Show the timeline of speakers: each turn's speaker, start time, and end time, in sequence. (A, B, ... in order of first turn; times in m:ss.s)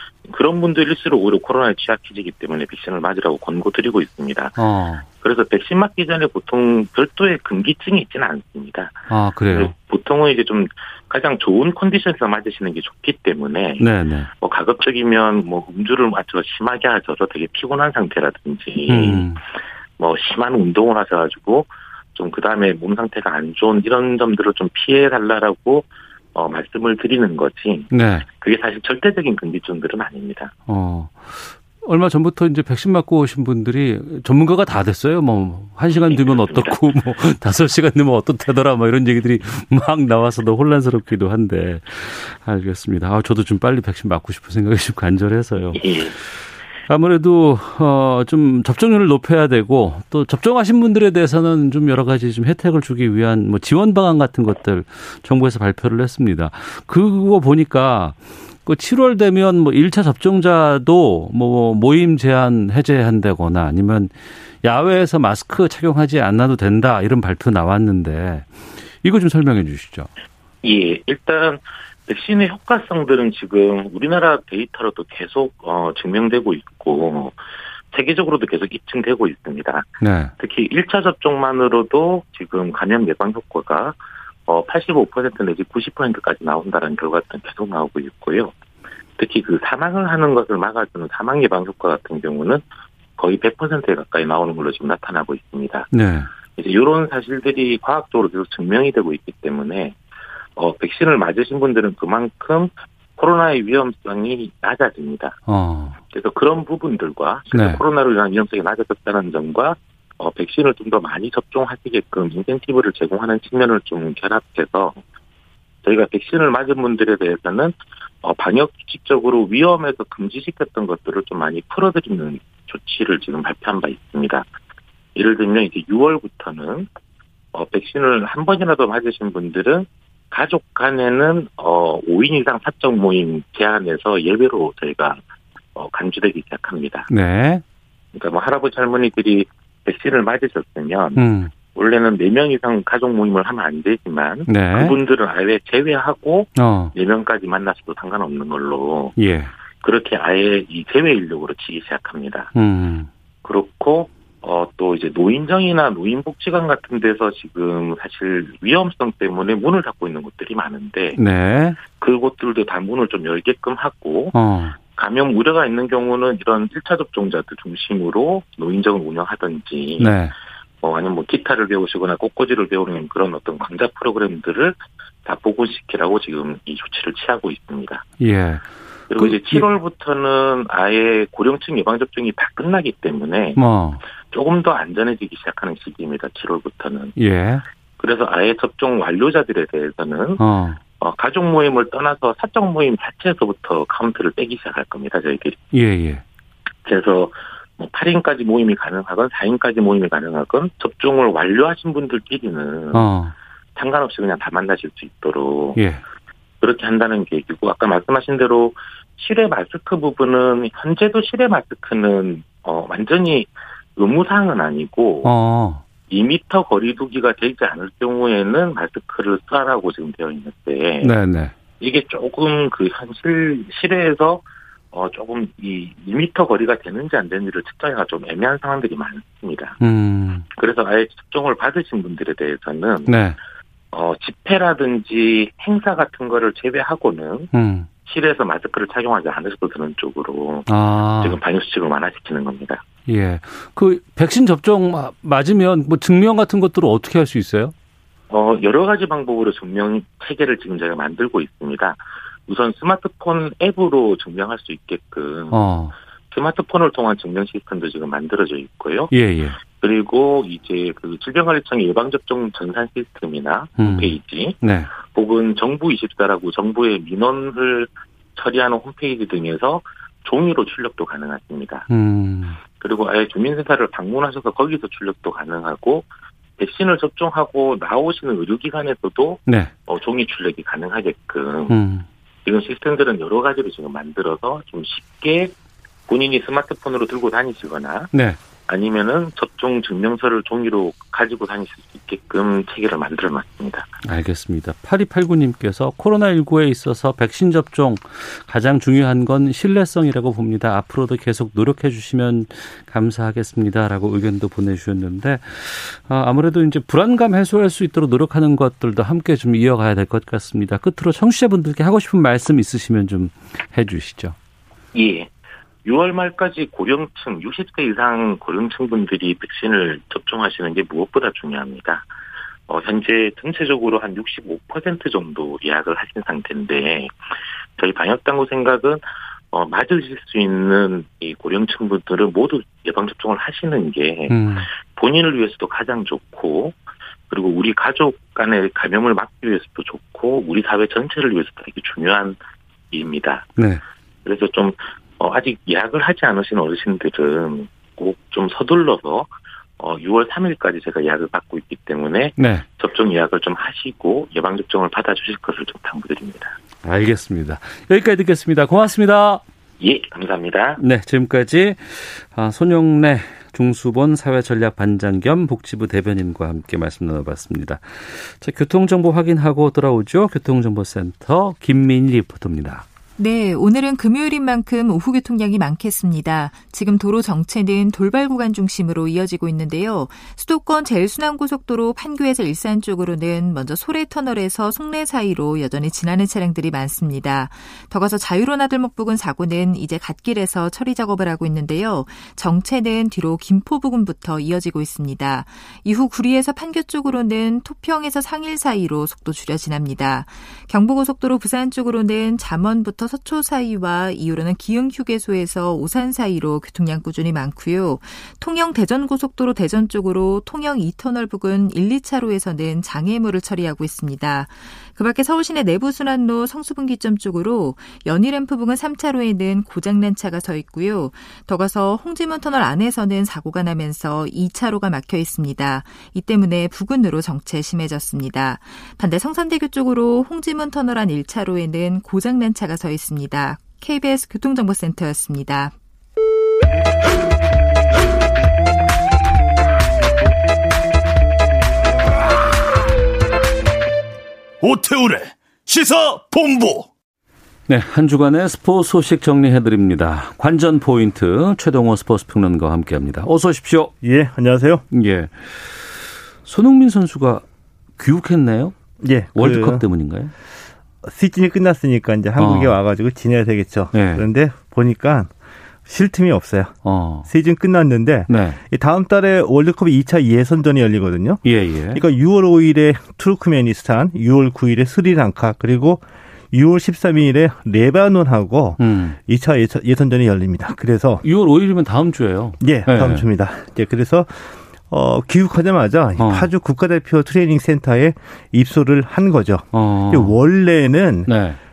0:00.2-0:04.6 A
0:04.6-0:05.0 B
0:05.2-0:13.9 A
0:09.1-0:09.7 B
0:13.8-0:14.3 B
0:14.4-0:19.2 A
0:18.9-0:19.4 B
0:20.0-0:30.5 A
0:27.9-0:28.2 B
0:30.7-0:45.9 B
0:36.1-0:36.8 A
0:45.7-0:46.2 A
0:46.9-1:10.1 B
1:10.6-1:17.4 A
1:17.9-1:24.0 A
1:20.0-1:20.3 B
1:24.5-1:28.5 A
1:29.2-1:32.6 A
1:33.2-1:35.9 A
1:35.9-1:36.3 B
1:36.5-1:40.0 A
1:40.6-1:45.4 A
1:45.5-1:46.0 B
1:46.1-1:55.0 A
1:47.5-1:47.8 B
1:55.8-2:04.4 A
2:05.2-2:06.9 A
2:07.5-2:15.2 A
2:15.7-2:17.1 A
2:17.1-2:17.6 B
2:18.1-2:21.2 A
2:21.2-2:21.5 B
2:21.7-2:29.1 A
2:24.5-2:24.9 B
2:26.6-2:26.9 B
2:29.2-2:29.5 B
2:29.8-2:32.5 A
2:32.5-2:33.1 B
2:33.4-2:41.2 A
2:41.1-2:41.8 B
2:42.0-2:44.3 A
2:44.3-2:44.8 B
2:44.9-2:50.1 A
2:50.0-2:50.3 B
2:50.8-2:58.0 A
2:58.2-2:59.7 B
2:59.1-3:03.6 A
3:03.6-3:04.0 B
3:04.3-3:07.1 A
3:07.2-3:07.6 B
3:08.0-3:10.4 A
3:10.4-3:10.8 B
3:11.0-3:15.6 A
3:15.7-3:16.2 B
3:16.8-3:23.1 A
3:22.9-3:23.3 B
3:23.8-3:25.8 A
3:25.8-3:26.0 B
3:26.6-3:35.3 A
3:35.2-3:35.8 B
3:36.1-3:41.1 A
3:41.0-3:41.5 B
3:41.8-3:49.8 A
3:49.8-3:50.4 B
3:50.5-3:53.1 A
3:53.0-3:53.4 B
3:53.9-3:57.5 A
3:57.5-3:57.9 B
3:58.0-4:00.7 A
4:00.7-4:01.4 B
4:01.2-4:02.8 A
4:03.1-4:07.7 B
4:08.3-4:15.6 A
4:15.5-4:15.9 B
4:16.3-4:19.1 A
4:19.1-4:19.6 B
4:19.8-4:31.9 A
4:23.8-4:24.9 B
4:31.9-4:32.6 B
4:32.8-4:36.0 A
4:36.6-4:41.8 A
4:39.5-4:39.7 B
4:41.7-4:42.0 B
4:42.4-4:45.5 A
4:46.1-4:48.1 A
4:48.1-4:48.4 B
4:48.7-4:53.9 A
4:54.0-5:14.4 B
5:14.9-5:15.3 A
5:15.8-5:22.1 A
5:22.7-5:27.1 A
5:27.8-5:36.7 A
5:34.3-5:34.7 B
5:37.3-5:42.4 A
5:42.9-5:43.5 A
5:43.6-5:43.8 B
5:44.2-5:56.5 A
5:52.4-5:52.6 B
5:56.8-5:59.4 B
5:59.8-6:00.8 A
6:00.8-6:12.8 B
6:13.2-7:15.7 C
7:24.6-7:26.9 D
7:27.7-7:33.9 B
7:34.0-7:34.8 E
7:34.9-7:37.4 B
7:38.0-7:38.8 B
7:39.0-7:39.8 E
7:39.4-7:40.3 B
7:41.0-7:45.3 E
7:42.4-7:42.7 B
7:43.9-7:44.2 B
7:45.9-7:46.7 E
7:46.8-7:47.3 B
7:47.2-7:51.4 E
7:48.3-7:48.6 B
7:51.4-7:52.0 B
7:51.9-8:01.2 E
7:58.8-7:59.2 B
8:01.2-8:03.2 B
8:02.6-8:11.3 E
8:06.2-8:06.5 B
8:09.7-8:10.3 B
8:11.2-8:11.6 B